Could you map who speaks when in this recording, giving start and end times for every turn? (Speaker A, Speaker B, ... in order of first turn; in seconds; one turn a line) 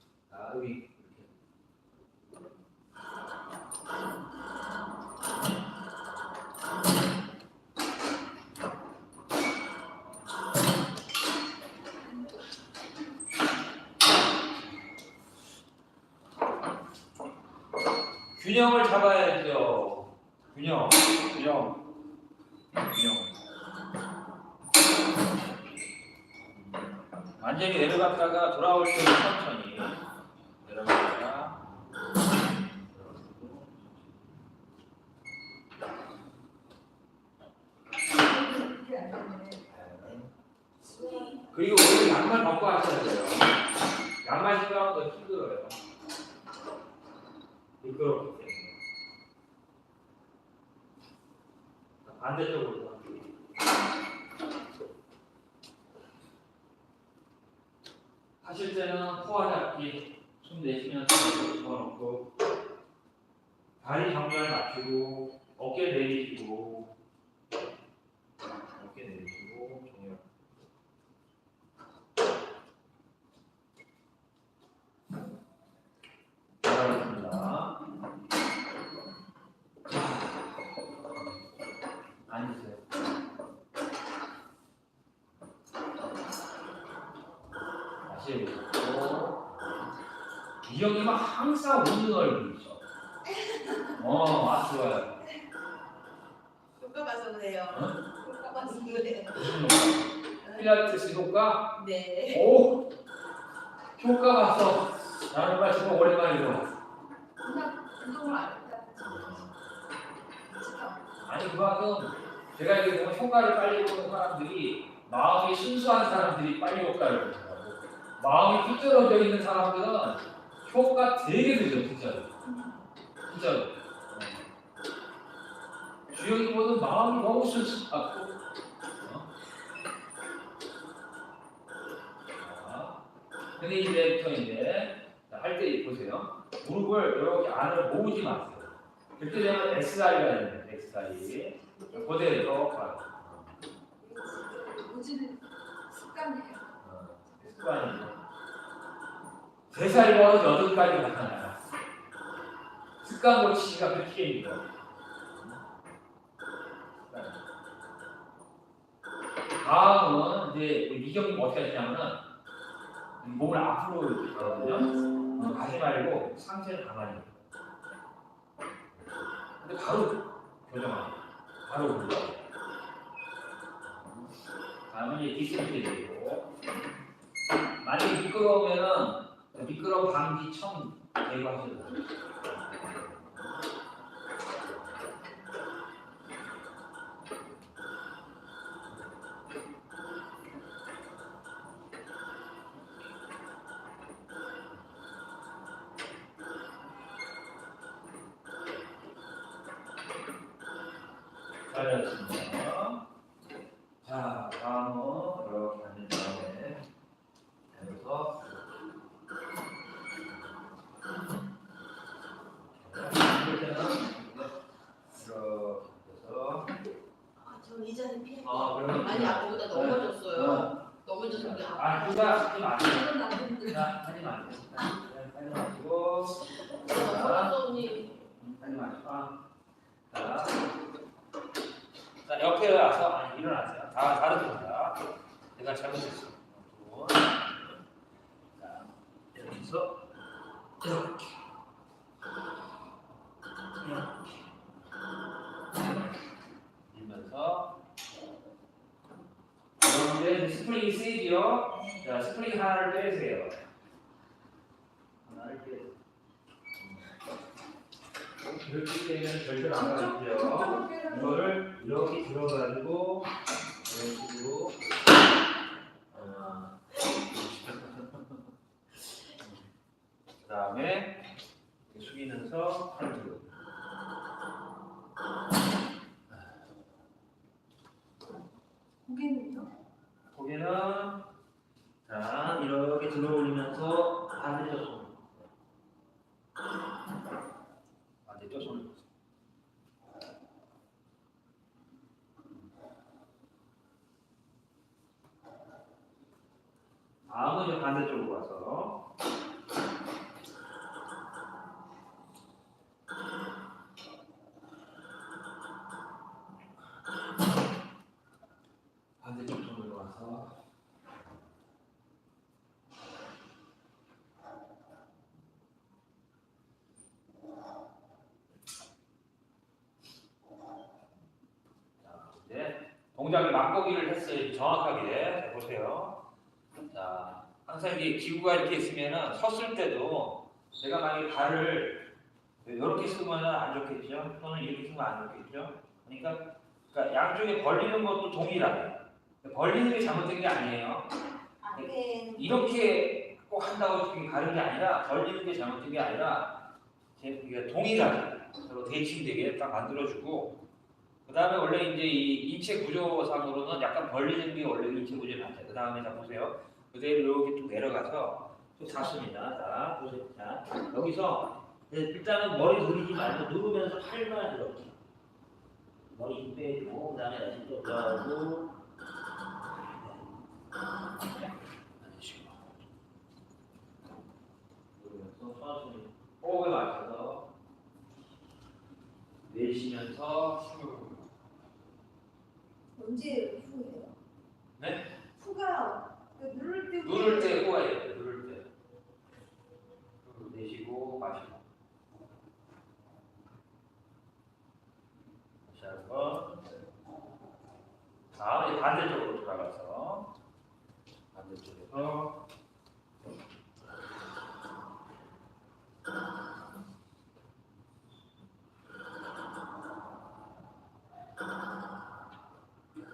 Speaker A: 0.3-1.3
Speaker A: 18.3-21.8
Speaker A: 22.8-23.4
Speaker A: 27.4-30.0
Speaker A: 30.6-31.6
Speaker A: 32.7-34.2
Speaker B: 38.1-39.6
Speaker A: 39.7-40.3
Speaker C: 40.9-41.4
Speaker B: 40.9-41.4
Speaker A: 41.5-43.5
Speaker A: 44.2-45.8
Speaker A: 47.8-48.8
Speaker A: 52.0-53.3
Speaker A: 58.4-62.3
Speaker A: 63.8-66.9
Speaker A: 68.7-70.2
Speaker A: 76.6-77.8
Speaker A: 82.3-82.8
Speaker A: 88.0-89.5
Speaker A: 90.6-92.8
Speaker A: 93.9-95.2
Speaker C: 96.8-99.6
Speaker A: 97.7-98.0
Speaker B: 98.2-98.7
Speaker A: 99.3-102.8
Speaker C: 100.4-100.7
Speaker C: 101.7-102.4
Speaker A: 104.0-106.7
Speaker B: 107.4-109.5
Speaker A: 109.0-109.5
Speaker B: 110.4-111.1
Speaker A: 111.2-122.3
Speaker B: 122.5-122.7
Speaker A: 123.3-124.4
Speaker A: 126.1-128.4
Speaker A: 129.0-129.3
Speaker A: 132.3-133.0
Speaker A: 133.6-143.6
Speaker B: 141.8-142.2
Speaker B: 144.0-146.8
Speaker A: 146.8-148.2
Speaker A: 149.7-151.6
Speaker A: 153.0-154.8
Speaker A: 155.3-155.6
Speaker A: 157.1-157.4
Speaker A: 159.6-162.2
Speaker A: 163.2-167.4
Speaker A: 168.9-172.4
Speaker A: 173.8-174.3
Speaker A: 174.9-176.5
Speaker A: 177.8-183.7
Speaker A: 201.7-203.0
Speaker A: 204.0-206.9
Speaker A: 207.7-208.6
Speaker A: 212.7-214.5
Speaker A: 215.1-216.7
Speaker C: 217.4-222.2
Speaker A: 218.4-229.4
Speaker C: 222.9-223.8
Speaker C: 226.8-228.2
Speaker A: 230.1-230.6
Speaker A: 232.2-235.0
Speaker A: 235.6-237.8
Speaker A: 238.6-240.0
Speaker A: 240.8-241.3
Speaker A: 246.9-247.8
Speaker A: 249.8-253.6
Speaker A: 255.2-255.9
Speaker A: 256.8-257.1
Speaker A: 258.4-263.3
Speaker B: 259.7-261.6
Speaker A: 263.8-264.8
Speaker A: 266.1-268.4
Speaker A: 269.3-269.6
Speaker A: 270.4-271.2
Speaker A: 271.9-273.5
Speaker B: 279.0-279.7
Speaker A: 280.3-281.2
Speaker A: 282.0-285.3
Speaker A: 288.2-289.1
Speaker A: 297.3-299.0
Speaker A: 309.2-310.5
Speaker A: 322.0-326.2
Speaker A: 326.9-332.1
Speaker A: 332.6-341.1
Speaker C: 341.7-342.3
Speaker A: 341.7-346.6
Speaker A: 347.1-350.6
Speaker A: 351.2-365.0
Speaker A: 366.1-368.7
Speaker A: 372.0-372.7
Speaker A: 374.9-377.5
Speaker A: 379.5-381.2
Speaker B: 382.9-384.1
Speaker A: 384.8-385.1
Speaker B: 385.4-387.6
Speaker A: 387.0-388.7
Speaker A: 390.2-391.6
Speaker A: 395.7-396.7
Speaker A: 398.3-400.3
Speaker A: 401.3-402.4